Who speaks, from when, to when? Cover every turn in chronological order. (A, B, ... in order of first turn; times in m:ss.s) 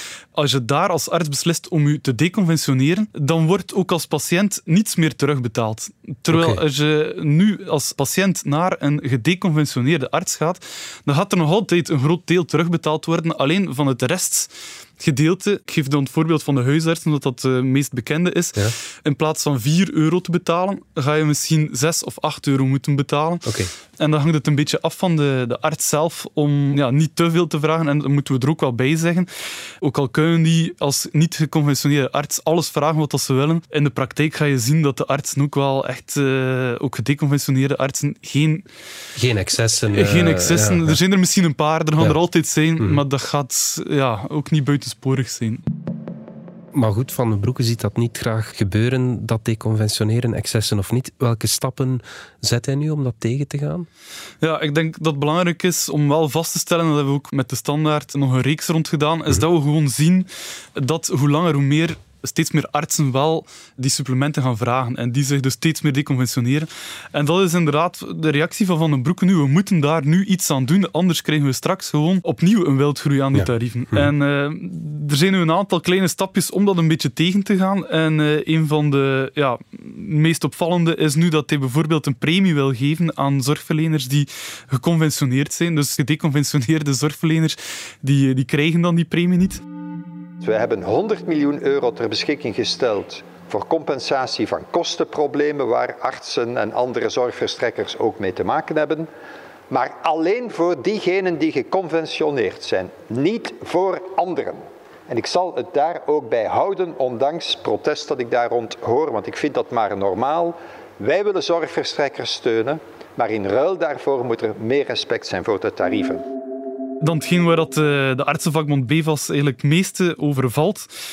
0:00.4-0:23.5 A
0:06.3-0:06.6 B
0:23.4-0:23.7 B
0:24.0-0:38.6 A
0:39.2-0:41.0 B
0:39.9-0:45.6 A
0:46.7-0:53.9 B
0:54.4-1:29.6 A
1:13.3-1:14.1 B
1:30.4-1:39.1 C
1:39.7-1:56.2 C
1:57.0-2:00.9 A